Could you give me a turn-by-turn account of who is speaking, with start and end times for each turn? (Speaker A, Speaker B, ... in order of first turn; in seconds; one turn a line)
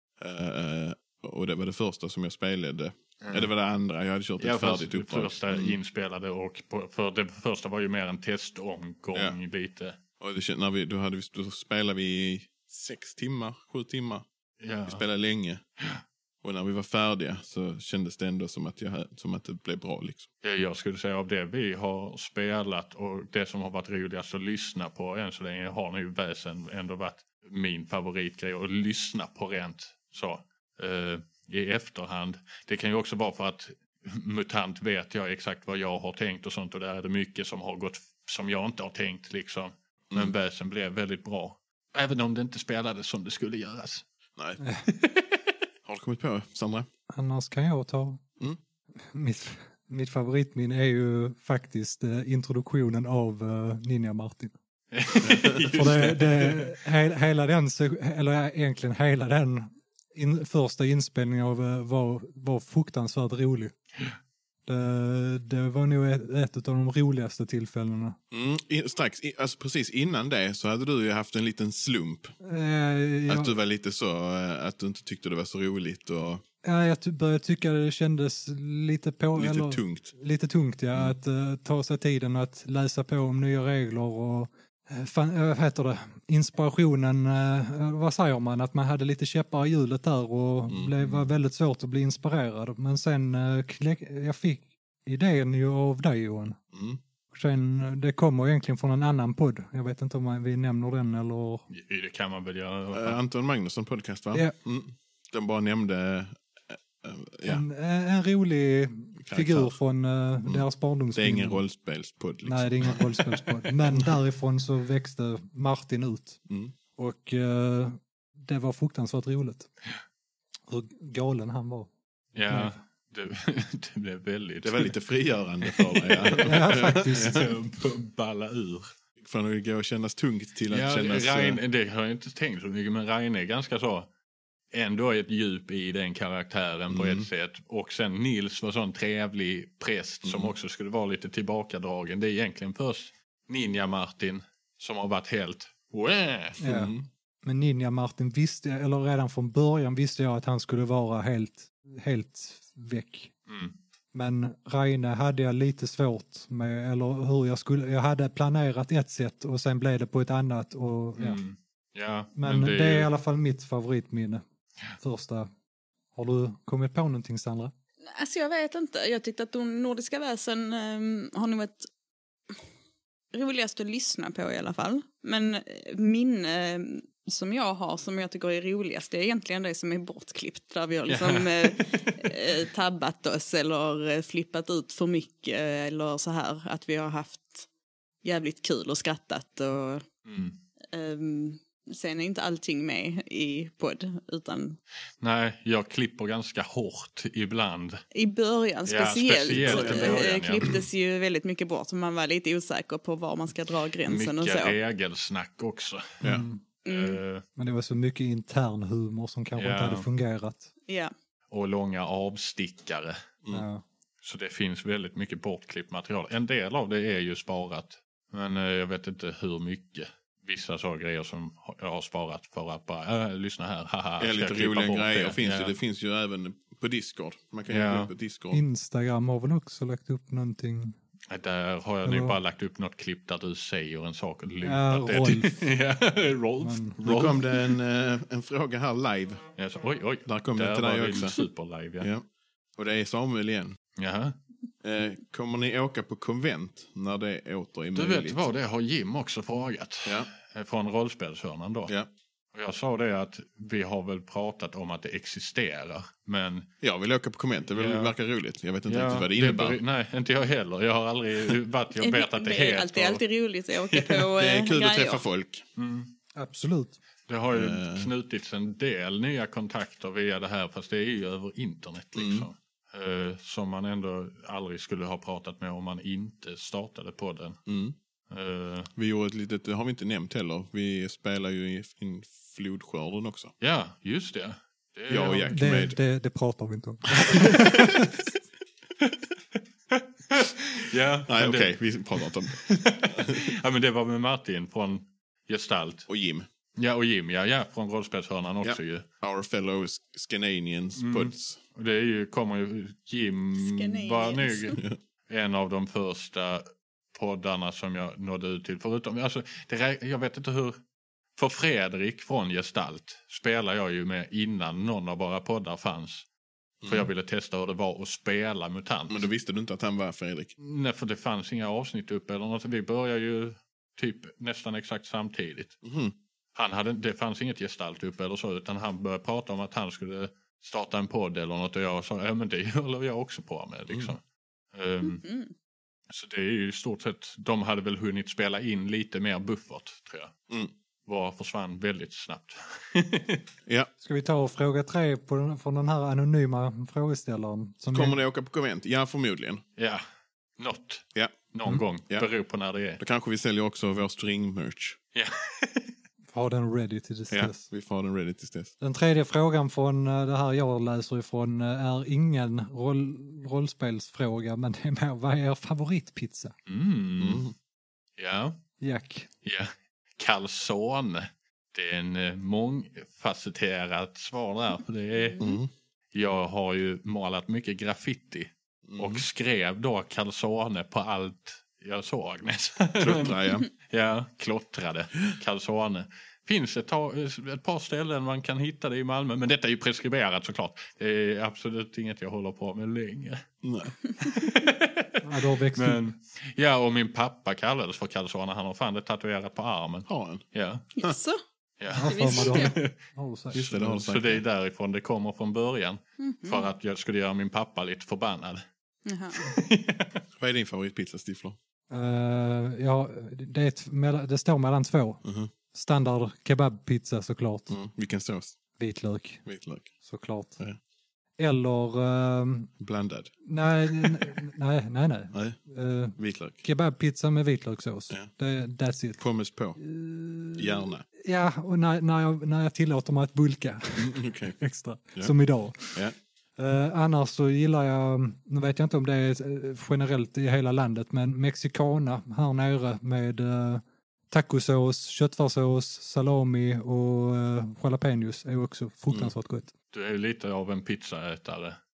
Speaker A: 0.2-5.8
Speaker B: 3.2-3.5
Speaker B: 4.4-10.0
Speaker A: 10.2-14.3
Speaker B: 14.6-15.0
Speaker A: 14.9-15.6
Speaker A: 16.4-20.3
Speaker B: 20.4-44.1
Speaker B: 44.9-45.4
Speaker A: 45.9-46.9
Speaker C: 47.1-48.2
Speaker C: 49.0-54.5
Speaker B: 54.9-56.8
Speaker A: 55.2-55.6
Speaker C: 55.7-63.7
Speaker C: 64.7-68.2
Speaker A: 68.3-72.3
Speaker C: 72.4-73.5
Speaker A: 73.3-76.4
Speaker C: 76.6-96.6
Speaker A: 79.4-80.1
Speaker A: 90.7-91.2
Speaker A: 96.7-97.0
Speaker C: 97.3-101.7
Speaker B: 101.7-103.2
Speaker A: 102.9-107.6
Speaker C: 107.5-111.6
Speaker A: 109.2-109.8
Speaker A: 110.5-113.2
Speaker C: 112.4-116.4
Speaker A: 116.5-116.7
Speaker C: 117.0-119.7
Speaker C: 120.7-121.9
Speaker B: 122.3-124.9
Speaker C: 122.5-122.8
Speaker A: 124.6-127.5
Speaker B: 125.6-128.9
Speaker C: 126.4-127.5
Speaker A: 129.2-131.6
Speaker B: 130.7-134.1
Speaker B: 134.7-146.6
Speaker A: 136.9-137.3
Speaker A: 140.2-140.5
Speaker C: 146.6-153.3
Speaker A: 146.6-147.1
Speaker B: 153.5-153.8
Speaker C: 154.1-161.4
Speaker B: 161.2-163.1
Speaker C: 162.3-164.4
Speaker C: 165.0-165.5
Speaker C: 166.1-167.7
Speaker D: 168.0-171.9
Speaker D: 173.3-187.7
Speaker B: 181.1-182.3
Speaker D: 188.2-190.1
Speaker B: 190.2-190.6
Speaker D: 190.9-194.8
Speaker B: 195.2-198.0
Speaker D: 198.1-204.8
Speaker B: 198.9-200.8
Speaker A: 199.5-200.8
Speaker B: 204.1-206.2
Speaker C: 206.2-206.6
Speaker B: 206.8-207.4
Speaker D: 206.9-207.2
Speaker C: 207.6-210.7
Speaker B: 209.6-210.1
Speaker B: 211.5-213.2
Speaker C: 213.5-213.8
Speaker B: 214.2-225.8
Speaker A: 224.2-228.6
Speaker B: 227.7-228.1
Speaker C: 228.5-231.0
Speaker B: 231.3-237.8
Speaker C: 232.0-232.4
Speaker C: 234.6-235.7
Speaker C: 236.6-237.0
Speaker A: 237.1-239.5
Speaker B: 239.6-242.1
Speaker A: 240.3-241.4
Speaker A: 242.8-243.8
Speaker B: 244.0-244.4
Speaker A: 244.8-248.4
Speaker B: 247.9-251.9
Speaker B: 252.5-256.7
Speaker A: 256.8-259.8
Speaker B: 257.8-258.1
Speaker B: 258.9-263.2
Speaker D: 262.0-265.2
Speaker B: 263.9-264.3
Speaker A: 264.4-265.6
Speaker B: 265.8-266.1
Speaker C: 266.4-267.0
Speaker B: 267.3-277.6
Speaker A: 267.5-268.1
Speaker A: 272.1-272.5
Speaker A: 277.7-277.9
Speaker B: 278.3-278.9
Speaker A: 279.0-283.5
Speaker B: 283.6-285.6
Speaker A: 285.1-286.0
Speaker C: 285.5-288.1
Speaker B: 289.9-296.1
Speaker A: 291.3-293.5
Speaker A: 296.1-296.5
Speaker B: 296.8-299.1
Speaker A: 298.6-301.6
Speaker B: 301.0-310.8
Speaker D: 303.6-304.8
Speaker B: 311.4-316.3
Speaker A: 316.8-317.1
Speaker B: 316.9-319.3
Speaker A: 319.1-320.5
Speaker B: 320.6-325.8
Speaker A: 325.8-326.1
Speaker B: 326.6-334.2
Speaker A: 333.9-334.1
Speaker B: 334.7-335.2
Speaker D: 335.0-335.5
Speaker B: 336.1-340.4
Speaker B: 341.1-343.4
Speaker C: 344.0-348.2
Speaker A: 347.9-349.6
Speaker B: 349.8-350.0
Speaker B: 350.6-353.0
Speaker A: 353.0-355.0
Speaker B: 355.1-355.9
Speaker C: 356.3-357.6
Speaker A: 357.3-358.7
Speaker C: 358.8-366.6
Speaker B: 366.7-367.4
Speaker A: 367.2-367.5
Speaker B: 368.2-368.6
Speaker C: 368.8-369.3
Speaker B: 369.4-375.5
Speaker A: 375.4-375.7
Speaker B: 376.1-393.4
Speaker A: 378.9-379.2
Speaker A: 383.0-383.7
Speaker A: 393.6-393.9
Speaker B: 394.2-395.1
Speaker C: 395.2-396.0
Speaker B: 395.8-400.9
Speaker A: 400.1-400.4
Speaker D: 401.0-401.4
Speaker B: 401.8-402.9
Speaker C: 401.9-403.6
Speaker D: 402.0-402.8
Speaker A: 403.5-404.4
Speaker B: 403.6-408.6
Speaker D: 406.2-406.7
Speaker D: 409.1-409.4
Speaker B: 409.4-410.1
Speaker A: 410.4-411.6
Speaker C: 411.9-415.2
Speaker A: 415.2-415.5
Speaker C: 415.7-417.8
Speaker A: 417.7-418.6
Speaker C: 418.8-419.4
Speaker A: 419.4-419.9
Speaker C: 420.0-420.6
Speaker C: 421.4-422.7
Speaker A: 422.8-423.3
Speaker C: 423.5-429.2
Speaker A: 424.0-424.4
Speaker A: 425.3-425.6
Speaker A: 426.2-426.6
Speaker A: 429.2-429.8
Speaker C: 429.8-449.7
Speaker A: 430.6-431.1
Speaker A: 434.0-434.6
Speaker A: 435.9-436.1
Speaker B: 449.9-451.8